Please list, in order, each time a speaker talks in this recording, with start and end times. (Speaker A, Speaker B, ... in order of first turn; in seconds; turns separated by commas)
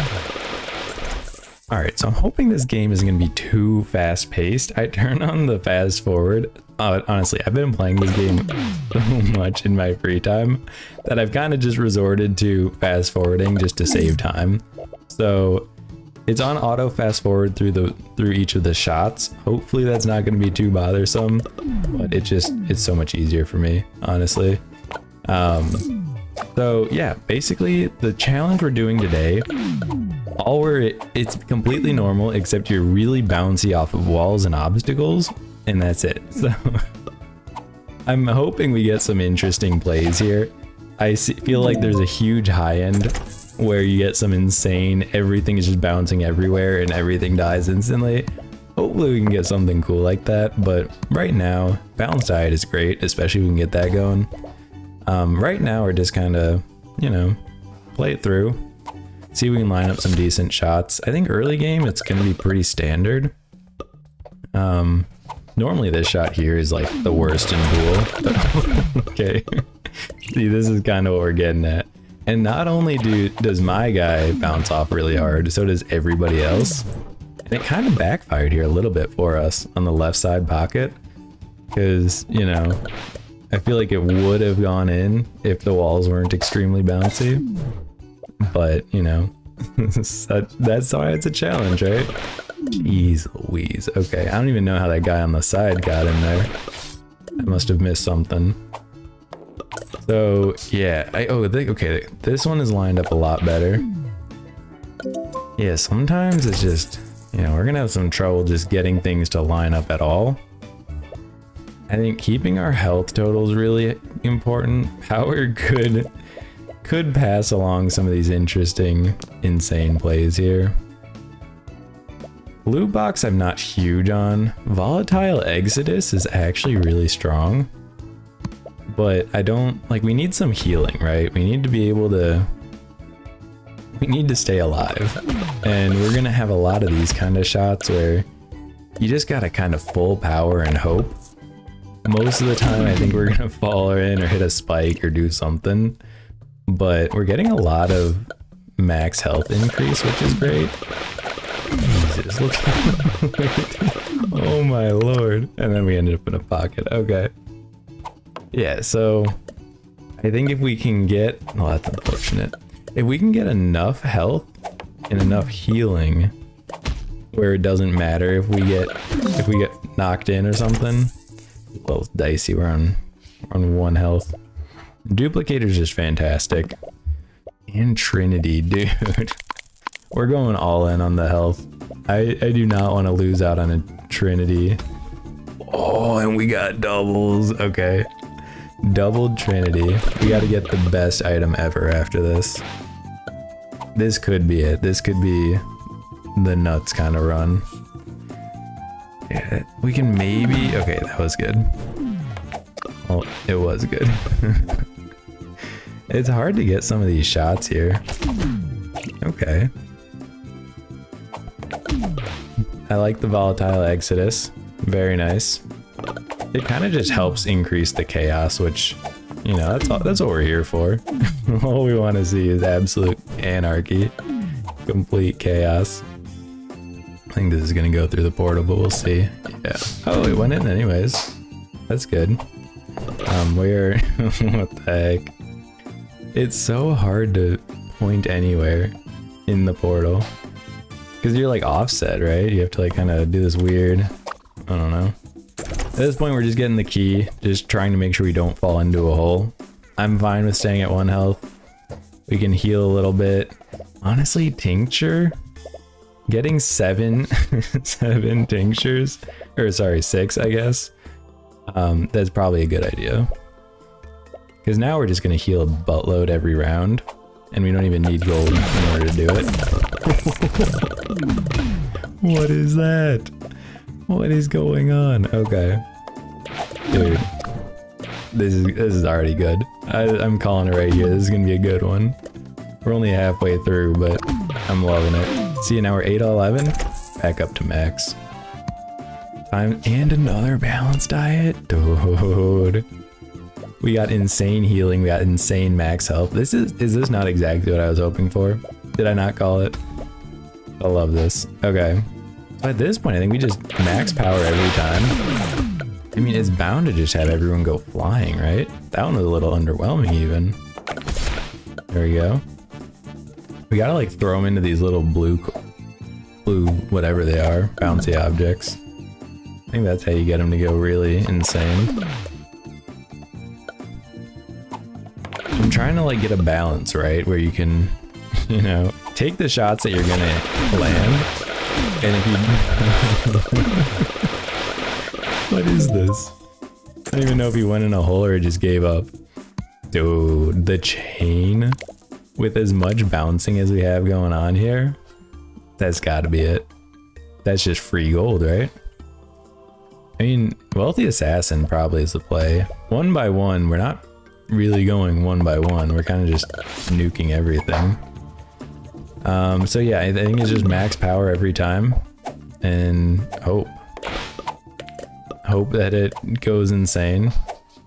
Speaker A: 1.7-15.7, Speaker A: 16.3-24.6, Speaker A: 25.3-25.9, Speaker A: 26.5-29.5, Speaker A: 30.4-36.9, Speaker A: 38.1-54.3, Speaker A: 55.0-57.4, Speaker A: 57.9-58.6, Speaker A: 59.3-63.3, Speaker A: 64.5-76.9, Speaker A: 77.5-81.0, Speaker A: 81.7-82.8, Speaker A: 83.5-87.5, Speaker A: 88.4-92.1, Speaker A: 92.7-96.5, Speaker A: 97.4-98.6, Speaker A: 100.0-103.9, Speaker A: 105.6-110.4, Speaker A: 111.9-116.1, Speaker A: 116.8-120.7, Speaker A: 122.6-127.7, Speaker A: 128.9-132.5, Speaker A: 133.9-138.3, Speaker A: 139.0-141.2, Speaker A: 142.0-146.0, Speaker A: 146.7-150.8, Speaker A: 151.7-157.3, Speaker A: 158.5-159.4, Speaker A: 160.2-164.5, Speaker A: 165.1-166.3, Speaker A: 167.3-171.1, Speaker A: 171.7-174.3, Speaker A: 175.1-176.8, Speaker A: 177.7-179.4, Speaker A: 180.1-184.8, Speaker A: 185.6-188.1, Speaker A: 188.8-192.6, Speaker A: 193.9-195.6, Speaker A: 196.3-197.6, Speaker A: 199.3-201.7, Speaker A: 203.0-204.8, Speaker A: 206.1-208.0, Speaker A: 209.2-209.7, Speaker A: 212.9-215.6, Speaker A: 216.5-224.1, Speaker A: 224.8-226.0, Speaker A: 227.3-231.3, Speaker A: 231.9-232.4, Speaker A: 233.2-235.3, Speaker A: 236.3-240.3, Speaker A: 241.2-244.1, Speaker A: 244.7-245.1, Speaker A: 245.9-251.5, Speaker A: 252.3-255.3, Speaker A: 256.3-260.9, Speaker A: 261.7-263.3, Speaker A: 264.6-270.9, Speaker A: 272.2-273.3, Speaker A: 274.1-275.8, Speaker A: 276.9-277.3, Speaker A: 278.3-282.2, Speaker A: 282.8-288.2, Speaker A: 289.5-292.9, Speaker A: 293.8-299.8, Speaker A: 300.8-305.2, Speaker A: 306.1-310.6, Speaker A: 311.9-312.4, Speaker A: 313.7-315.6, Speaker A: 316.4-318.8, Speaker A: 319.7-321.9, Speaker A: 325.5-331.3, Speaker A: 332.0-334.3, Speaker A: 335.5-336.3, Speaker A: 337.1-339.1, Speaker A: 339.9-341.8, Speaker A: 342.4-345.0, Speaker A: 345.8-346.7, Speaker A: 347.4-348.7, Speaker A: 350.2-358.0, Speaker A: 359.2-362.0, Speaker A: 362.6-363.8, Speaker A: 365.4-367.3